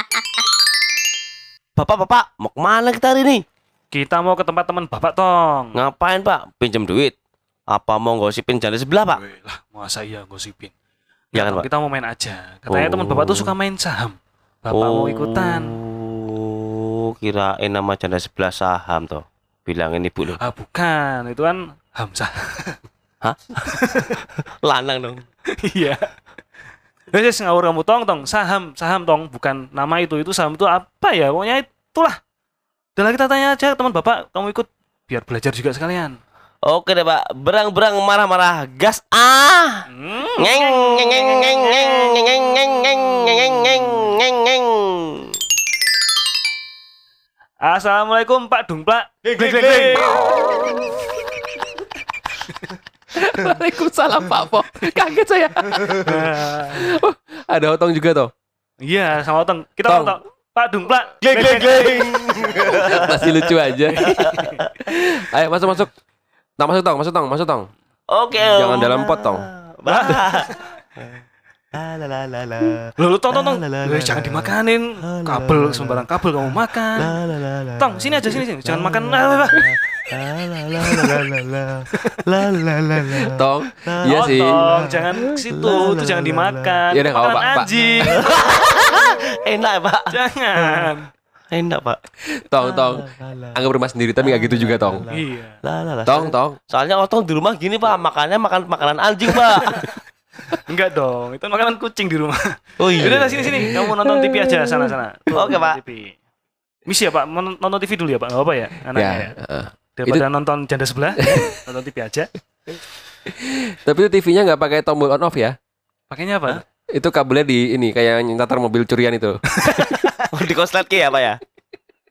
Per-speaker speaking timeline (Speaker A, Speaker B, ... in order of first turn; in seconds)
Speaker A: 1.8-3.4, 5.7-7.1, 7.7-9.2, 11.3-11.7, 12.7-13.5, 14.7-20.4, 23.2-25.2, 36.6-39.8, 40.4-45.4, 49.6-50.1, 61.2-64.9, 68.1-86.8, 87.4-90.9, 91.5-92.0, 92.6-93.6, 94.2-99.9, 102.8-103.7, 105.3-105.8, 120.3-121.4
Speaker B: 3.9-5.7, 9.2-10.7, 11.3-15.8, 20.2-22.8, 23.7-24.1, 25.6-26.1, 27.1-32.2, 33.0-36.2, 39.9-42.2, 47.6-50.3, 56.0-56.9, 58.8-62.9, 63.9-64.6, 69.9-70.7, 73.0-77.1, 77.8-80.0, 80.7-81.3, 81.9-82.2, 84.0-88.3, 90.1-91.1, 95.1-95.6, 100.7-102.4, 103.0-106.2, 106.8-109.3, 110.0-112.3, 116.1-116.6, 119.6-120.2
Speaker C: 53.1-58.3, 59.9-60.2, 62.6-64.2, 64.8-65.9, 66.6-67.7, 68.4-69.5, 83.3-84.6, 86.9-88.1, 92.3-95.0, 96.0-96.6, 103.1-104.9, 108.9-110.2, 111.2-111.6, 113.3-115.6, 116.5-119.8